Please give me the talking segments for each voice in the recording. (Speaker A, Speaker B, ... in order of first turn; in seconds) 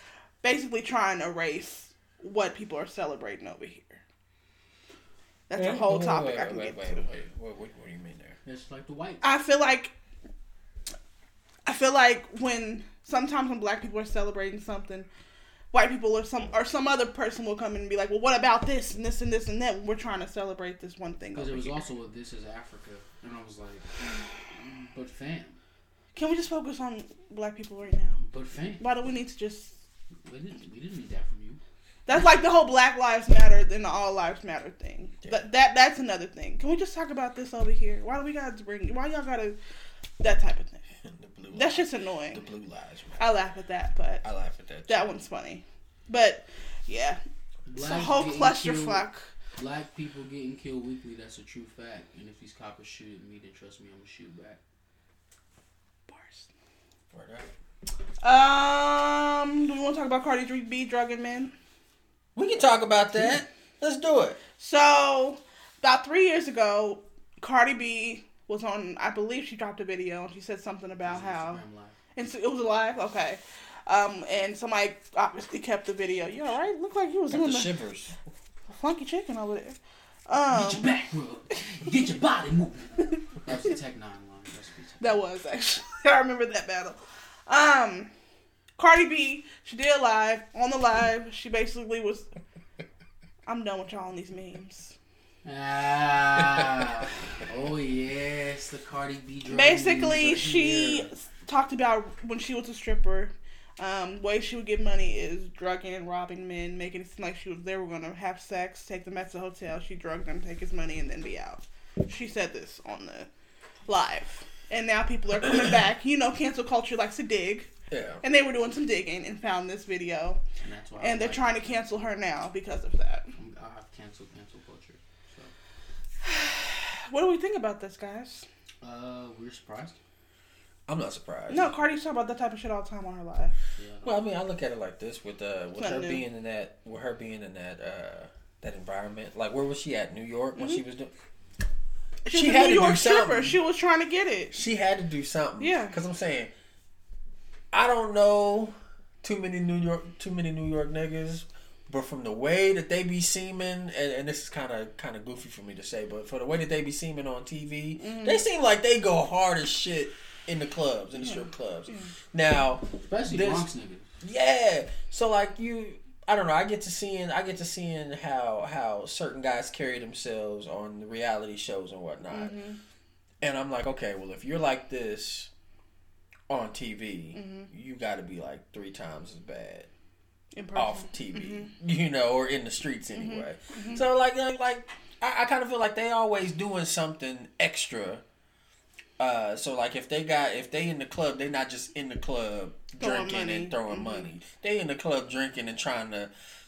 Speaker A: 0.4-4.0, 5.5-7.0, 9.2-9.9, 11.7-15.1, 15.7-21.9, 26.1-28.2, 28.8-29.8, 32.0-39.6, 40.2-40.8, 41.5-42.4, 43.2-44.2, 44.9-47.2, 47.8-49.3, 56.1-56.5, 58.2-61.5, 64.6-71.6, 72.2-77.7, 78.7-80.9, 85.0-88.1, 88.8-92.3, 93.5-94.9, 99.5-113.3, 113.9-117.7, 118.2-120.4, 121.0-123.3, 126.2-128.4, 131.5-133.5, 135.8-136.2, 140.6-140.8, 142.2-144.6, 145.6-145.9, 158.0-158.4, 161.2-162.1, 172.3-172.8, 177.3-177.7, 180.5-181.7, 183.1-184.0, 193.0-194.3
Speaker B: 5.5-8.4, 41.0-43.3, 44.2-45.1, 57.1-57.5, 62.3-64.4, 77.3-78.1, 117.9-118.2, 130.9-131.8, 134.0-141.1, 142.3-143.6, 144.5-146.5, 147.7-163.7, 164.2-172.5, 173.4-175.5, 176.5-179.9, 180.7-188.2, 189.2-196.3
Speaker C: 8.4-9.2, 21.3-23.9, 24.5-25.6, 28.2-28.8, 30.2-31.6, 47.7-49.0, 49.5-54.6, 71.0-71.9, 80.5-85.2, 95.4-101.1, 120.6-121.9, 123.3-125.5, 128.8-130.0, 133.8-134.2, 163.0-164.1